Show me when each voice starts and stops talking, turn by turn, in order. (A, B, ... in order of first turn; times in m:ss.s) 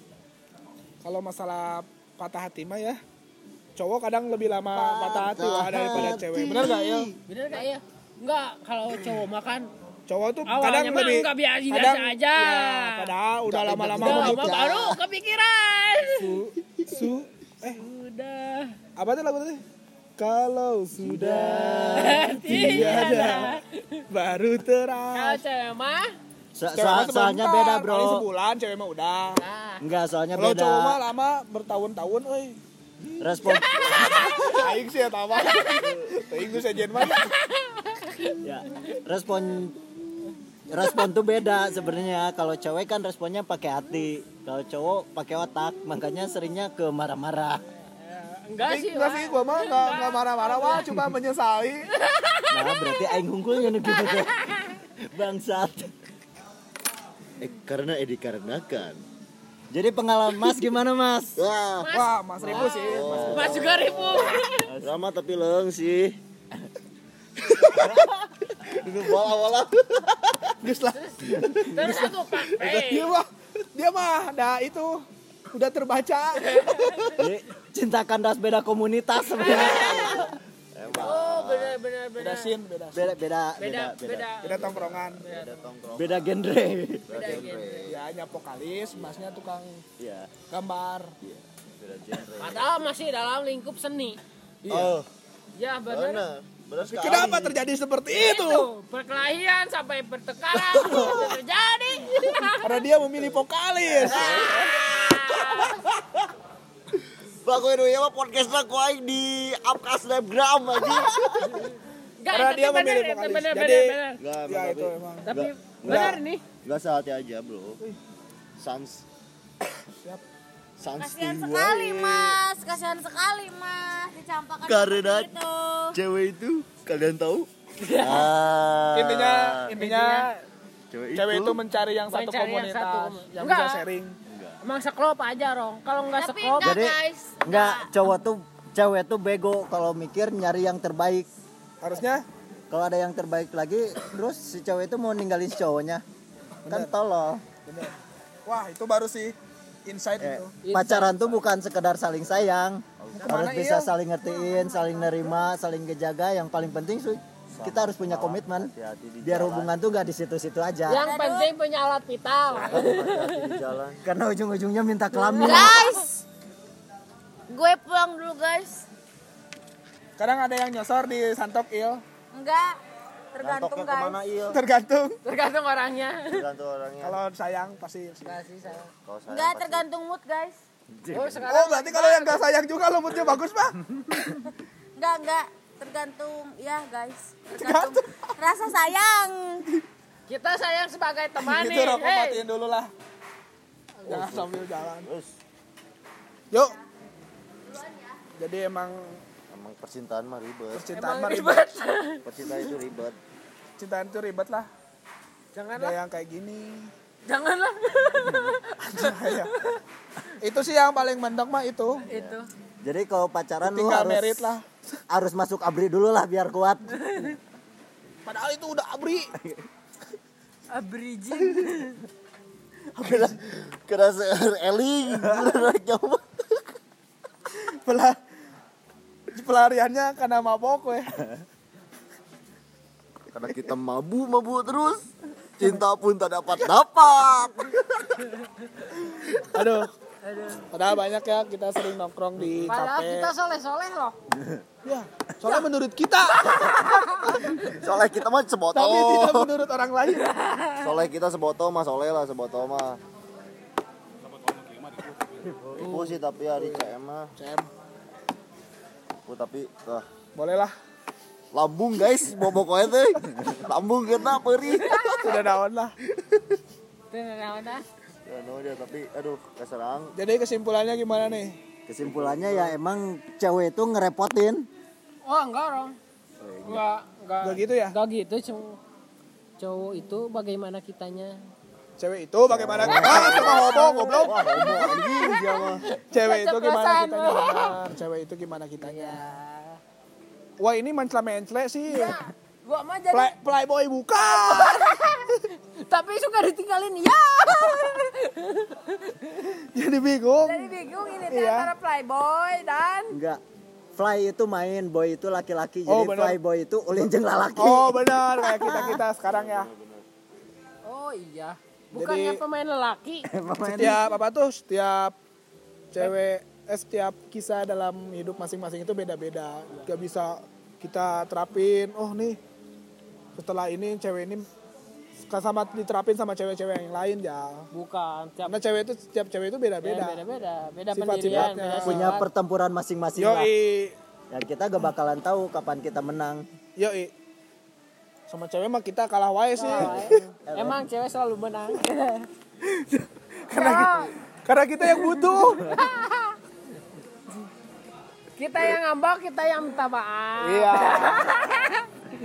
0:01.0-0:03.0 A
0:03.8-0:07.1 A
0:04.7-0:07.1 B
0:07.3-0:09.7 C
0:10.1-0:14.6 A
0:10.5-0:13.1 C
0:13.5-0:15.0 B
0:13.9-0:16.4 C
0:16.2-0:17.8 A
0:17.6-0:18.8 C
0:19.0-0:19.6 A
0:20.2-0:23.6 A
0:20.9-0:23.4 B
0:21.9-0:24.0 C
0:24.1-0:25.4 A
0:25.1-0:26.1 C
0:26.5-0:28.3 B
0:26.7-0:29.4 A
0:29.4-0:29.8 C
0:29.8-0:31.0 B
0:30.3-0:32.6 A
0:33.2-0:33.9 B
0:33.4-0:34.7 C
0:33.8-0:34.1 D
0:34.0-0:37.3 A
0:35.4-0:35.8 C
0:37.0-0:39.0 C
0:38.4-0:39.8 B
0:40.7-0:47.6 B
0:48.0-0:50.9 C
0:48.6-0:51.9 A
0:52.0-0:53.2 C
0:52.5-0:54.3 B
0:53.8-0:54.8 C
0:55.0-0:55.9 B
0:57.4-0:59.0 D
0:59.7-1:01.4 B
1:01.4-1:01.9 D
1:01.8-1:04.6 C
1:01.9-1:03.3 A
1:02.4-1:03.8 B
1:02.6-1:06.2 D
1:04.7-1:04.9 B
1:07.4-1:08.1 D
1:08.6-1:10.5 D
1:10.6-1:17.1 A
1:10.9-1:13.1 C
1:16.4-1:17.2 C
1:17.1-1:20.3 B
1:19.4-1:20.3 C
1:19.7-1:20.1 D
1:20.7-1:21.8 D
1:20.9-1:22.6 C
1:22.2-1:23.1 A
1:22.9-1:24.3 B
1:23.6-1:25.6 C
1:24.4-1:25.2 A
1:24.5-1:26.5 D
1:26.0-1:27.4 B
1:27.1-1:28.0 D
1:27.1-1:27.9 C
1:27.9-1:29.8 A
1:28.9-1:29.3 D
1:30.0-1:30.3 D
1:30.5-1:31.1 A
1:31.2-1:32.6 D
1:32.4-1:35.0 C
1:34.7-1:35.1 D
1:35.6-1:36.2 C
1:35.9-1:37.6 D
1:36.9-1:38.7 A
1:38.1-1:42.8 C
1:40.6-1:41.4 D
1:42.6-1:44.5 A
1:44.0-1:46.0 D
1:44.0-1:45.8 C
1:47.4-1:51.7 D
1:52.2-1:54.2 C
1:52.3-1:55.3 A
1:54.2-1:57.8 D
1:55.2-1:56.4 C
1:55.8-1:56.1 A
1:58.6-1:59.0 D
2:00.8-2:02.4 D
2:01.0-2:05.9 E
2:04.6-2:05.3 D
2:05.9-2:09.7 D
2:07.8-2:08.3 C
2:08.9-2:10.3 A
2:09.7-2:10.3 C
2:10.9-2:11.6 D
2:11.1-2:14.2 A
2:12.1-2:13.8 C
2:14.3-2:14.6 D
2:14.6-2:16.8 C
2:16.1-2:17.9 E
2:16.6-2:21.3 B
2:21.8-2:22.2 A
2:22.7-2:26.0 B
2:26.7-2:26.9 A
2:26.7-2:27.4 B
2:27.6-2:30.5 A
2:30.2-2:41.0 B
2:30.6-2:31.2 C
2:33.0-2:33.5 D
2:33.1-2:33.9 A
2:34.3-2:35.4 E
2:37.5-2:39.8 D
2:40.9-2:43.6 C
2:40.9-2:41.5 E
2:42.5-2:44.0 D
2:44.0-2:45.8 B
2:45.1-2:46.0 C
2:45.4-2:46.2 E
2:47.5-2:48.9 E
2:50.2-2:52.0 A
2:52.3-2:52.8 E
2:53.3-2:54.2 E
2:53.4-2:54.6 D
2:54.5-2:55.2 A
2:55.2-2:56.4 C
2:56.3-2:57.2 D
2:57.0-2:58.4 A
2:58.2-2:58.9 C
2:59.0-2:59.8 D
2:59.3-3:00.6 E
3:01.1-3:01.4 B
3:01.1-3:02.4 C
3:01.5-3:04.4 A
3:05.0-3:09.6 E
3:07.6-3:08.0 A
3:10.3-3:12.4 C
3:11.4-3:12.9 A
3:14.0-3:15.1 A
3:14.1-3:15.3 D
3:17.6-3:18.2 E
3:18.4-3:19.2 A
3:19.5-3:20.9 D
3:20.7-3:21.6 A
3:20.9-3:22.6 C
3:22.2-3:23.2 D
3:23.8-3:24.7 A
3:25.5-3:26.0 C
3:25.8-3:26.9 A
3:27.3-3:29.8 C
3:28.8-3:29.5 A
3:30.4-3:32.0 A
3:32.1-3:32.5 C
3:32.1-3:32.4 D
3:32.8-3:34.6 B
3:33.6-3:34.6 A
3:35.1-3:37.0 B
3:37.0-3:37.4 C
3:38.2-3:39.3 A
3:40.7-3:42.0 C
3:42.9-3:46.4 D
3:47.5-3:48.2 A
3:49.3-3:51.1 A
3:53.3-3:55.1 D
3:55.6-3:58.1 D
3:59.3-3:59.9 A
4:00.2-4:00.6 C
4:00.7-4:03.3 A
4:02.6-4:04.2 C
4:04.8-4:07.7 A
4:06.8-4:07.4 C
4:07.4-4:09.5 D
4:08.7-4:10.3 A
4:10.2-4:10.9 C
4:10.8-4:13.0 D
4:15.8-4:17.3 D
4:15.8-4:17.7 A
4:19.2-4:20.0 D
4:20.3-4:20.7 A
4:21.5-4:25.4 D
4:24.8-4:25.3 C
4:25.2-4:25.9 A
4:27.1-4:27.8 C
4:28.2-4:30.1 D
4:30.2-4:31.6 A
4:31.9-4:34.7 B
4:32.0-4:32.7 D
4:35.2-4:36.0 C
4:36.4-4:36.8 D
4:36.6-4:38.8 C
4:37.4-4:38.0 A
4:39.6-4:41.4 C
4:42.0-4:44.7 A
4:42.5-4:45.9 D
4:42.9-4:47.8 C
4:46.1-4:49.3 A
4:48.8-4:49.8 C
4:50.6-4:52.2 A
4:51.9-4:53.3 C
4:53.1-4:55.0 A
4:54.3-4:59.4 C
4:59.4-5:00.7 A
5:00.4-5:03.2 C
5:01.3-5:01.7 A
5:03.1-5:03.4 B
5:03.9-5:09.0 B
5:05.9-5:06.4 A
5:07.6-5:09.7 A
5:09.2-5:10.0 D
5:10.8-5:13.3 C
5:11.9-5:12.4 A
5:13.3-5:14.1 B
5:13.7-5:15.1 A
5:15.9-5:22.4 A
5:23.4-5:24.5 A
5:25.3-5:27.7 A
5:27.7-5:28.6 C
5:28.4-5:30.2 A
5:29.8-5:32.3 C
5:30.9-5:32.1 A
5:31.2-5:33.5 B
5:33.2-5:33.9 A
5:34.3-5:36.4 B
5:36.8-5:37.1 A
5:38.3-5:40.2 A
5:39.6-5:42.3 C
5:39.8-5:40.8 B
5:42.6-5:45.8 A
5:43.5-5:44.1 C
5:45.5-5:46.4 C
5:48.4-5:51.9 C
5:50.4-5:51.4 A